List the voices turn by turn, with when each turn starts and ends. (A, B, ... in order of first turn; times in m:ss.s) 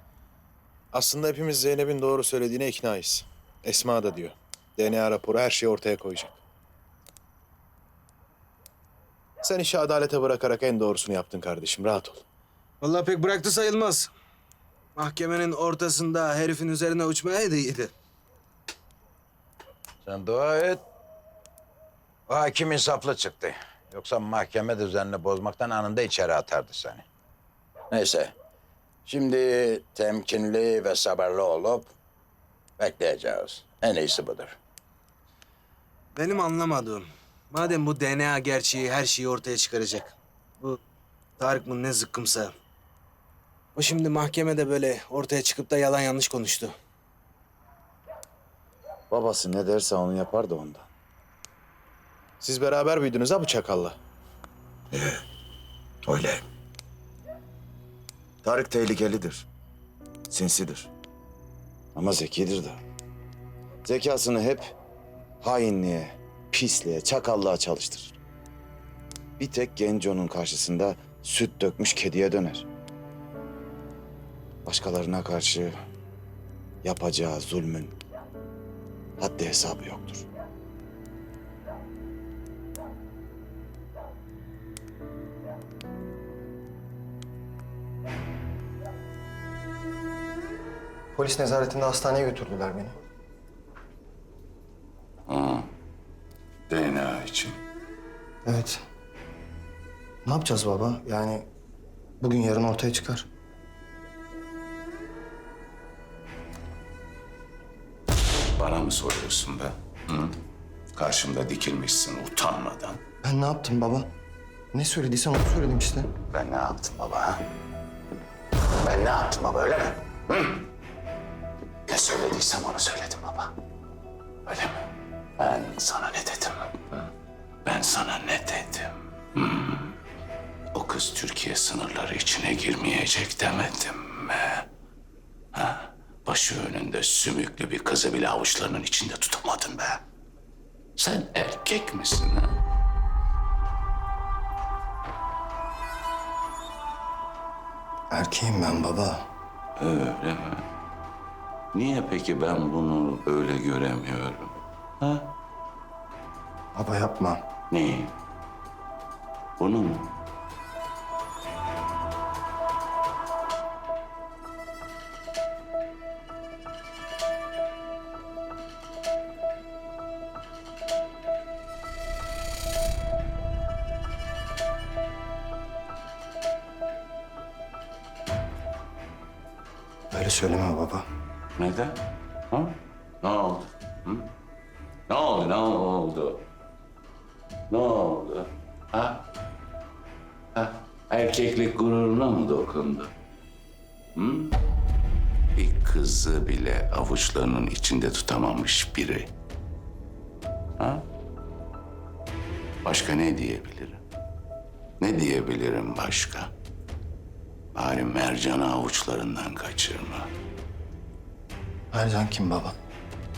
0:00.9-0:06.4 A
0:09.4-0:12.2 A
0:12.8-0:14.1 B
0:15.0-0:17.9 B
0:20.0-0:20.8 C
0:22.3-0:27.0 C
0:27.9-0:28.3 C
0:29.0-0:31.9 C
0:32.8-0:34.6 C
0:36.1-0:40.8 B
0:41.4-0:42.5 B
0:43.8-0:46.7 B
0:49.1-0:50.9 D
0:52.4-0:54.0 A
0:54.9-0:55.2 D
0:56.0-0:56.4 D
0:58.4-0:59.4 D
1:00.3-1:00.9 D
1:01.9-1:02.8 D
1:03.8-1:04.7 D
1:05.4-1:08.2 D
1:09.4-1:12.7 D
1:14.6-1:15.7 D
1:16.8-1:18.0 D
1:19.2-1:20.2 D
1:31.1-1:33.0 E
1:35.3-1:35.7 F
1:36.7-1:37.6 F
1:38.4-1:38.8 E
1:40.2-1:41.4 E
1:42.2-1:43.2 E
1:48.6-1:50.4 F
1:51.0-1:53.0 F
1:53.2-1:54.1 E
1:54.7-1:56.1 E
1:56.3-1:57.4 F
1:58.8-2:00.6 F
2:01.9-2:03.5 F
2:04.4-2:04.9 F
2:05.4-2:07.1 F
2:07.6-2:10.0 F
2:10.7-2:14.7 F
2:15.5-2:20.0 F
2:21.0-2:22.6 F
2:28.1-2:29.2 E
2:29.8-2:30.6 F
2:31.7-2:35.3 F
2:36.7-2:37.4 E
2:37.7-2:38.1 F
2:39.6-2:40.1 F
3:00.1-3:01.0 E
3:01.6-3:04.3 F
3:05.1-3:06.5 F
3:07.7-3:09.2 F
3:10.5-3:13.1 F
3:14.1-3:14.6 F
3:15.5-3:19.3 F
3:20.8-3:21.1 F
3:22.8-3:24.0 F
3:25.0-3:26.5 F
3:27.7-3:30.3 F
3:31.9-3:32.7 E